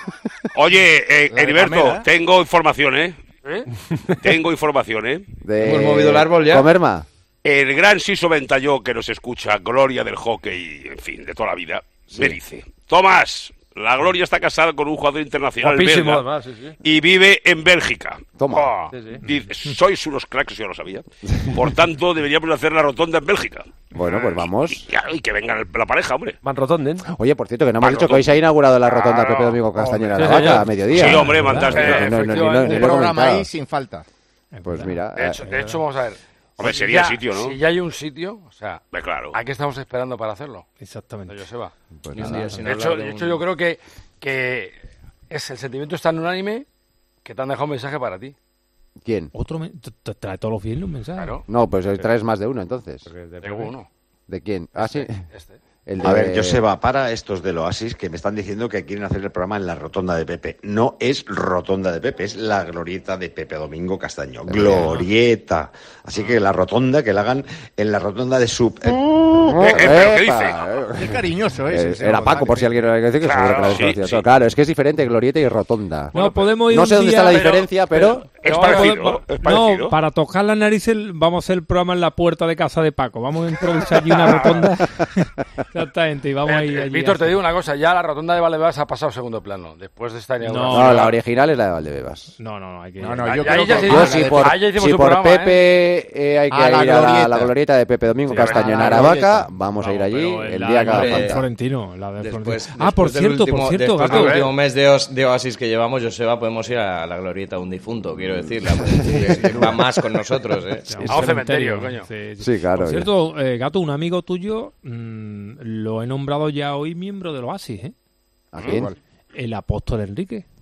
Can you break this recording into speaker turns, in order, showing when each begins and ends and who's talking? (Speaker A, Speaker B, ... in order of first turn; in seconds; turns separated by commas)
Speaker A: 0.5-3.2, Speaker B: 1.3-2.0, Speaker A: 4.2-5.2, Speaker C: 5.4-7.1, Speaker D: 5.6-6.7, Speaker A: 7.4-16.2, Speaker C: 12.1-12.4, Speaker E: 15.6-16.8, Speaker A: 16.8-18.3, Speaker C: 18.4-18.7, Speaker F: 18.5-18.9, Speaker E: 18.9-19.2, Speaker A: 19.2-23.8, Speaker C: 23.9-24.9, Speaker F: 24.0-24.4, Speaker A: 24.7-26.4, Speaker E: 26.4-27.0, Speaker C: 27.1-33.5, Speaker A: 27.8-28.3, Speaker F: 28.9-29.6, Speaker B: 29.8-30.5, Speaker E: 30.2-30.6, Speaker A: 30.9-32.2, Speaker G: 31.1-31.7, Speaker F: 31.7-33.0, Speaker B: 32.4-34.0, Speaker G: 34.5-35.8, Speaker C: 34.6-35.4, Speaker F: 35.1-40.6, Speaker A: 36.6-37.6, Speaker A: 38.9-39.4, Speaker G: 40.8-41.4, Speaker F: 41.3-41.7, Speaker C: 42.0-42.7, Speaker D: 42.1-43.4, Speaker F: 42.6-44.8, Speaker F: 45.3-46.6, Speaker F: 47.2-48.3, Speaker C: 49.0-49.3, Speaker G: 49.3-51.4, Speaker F: 51.1-51.4, Speaker C: 51.5-53.1, Speaker F: 53.1-53.9, Speaker C: 54.3-55.2, Speaker F: 54.7-55.6, Speaker C: 55.9-56.6, Speaker H: 56.0-69.0, Speaker C: 64.5-65.0, Speaker C: 68.9-78.3, Speaker A: 69.5-70.6, Speaker B: 70.9-72.7, Speaker F: 73.2-73.9, Speaker A: 73.6-74.2, Speaker G: 76.1-77.5, Speaker F: 76.1-76.5, Speaker F: 77.2-79.0, Speaker A: 78.4-79.9, Speaker G: 78.4-87.4, Speaker F: 84.0-84.7, Speaker F: 86.4-91.2, Speaker G: 90.4-91.1, Speaker C: 90.7-92.3, Speaker G: 92.4-93.8, Speaker B: 93.0-94.6, Speaker F: 93.3-95.7, Speaker C: 93.7-101.4, Speaker B: 96.5-97.5, Speaker F: 98.3-99.0, Speaker G: 98.3-99.2, Speaker B: 98.4-99.4, Speaker G: 99.8-104.5, Speaker D: 100.9-101.4, Speaker D: 102.2-110.9, Speaker F: 104.0-104.5, Speaker C: 108.4-109.9, Speaker G: 110.9-117.9, Speaker F: 111.0-112.1, Speaker C: 112.4-113.1, Speaker C: 118.5-118.9, Speaker B: 118.6-119.0, Speaker G: 119.3-120.5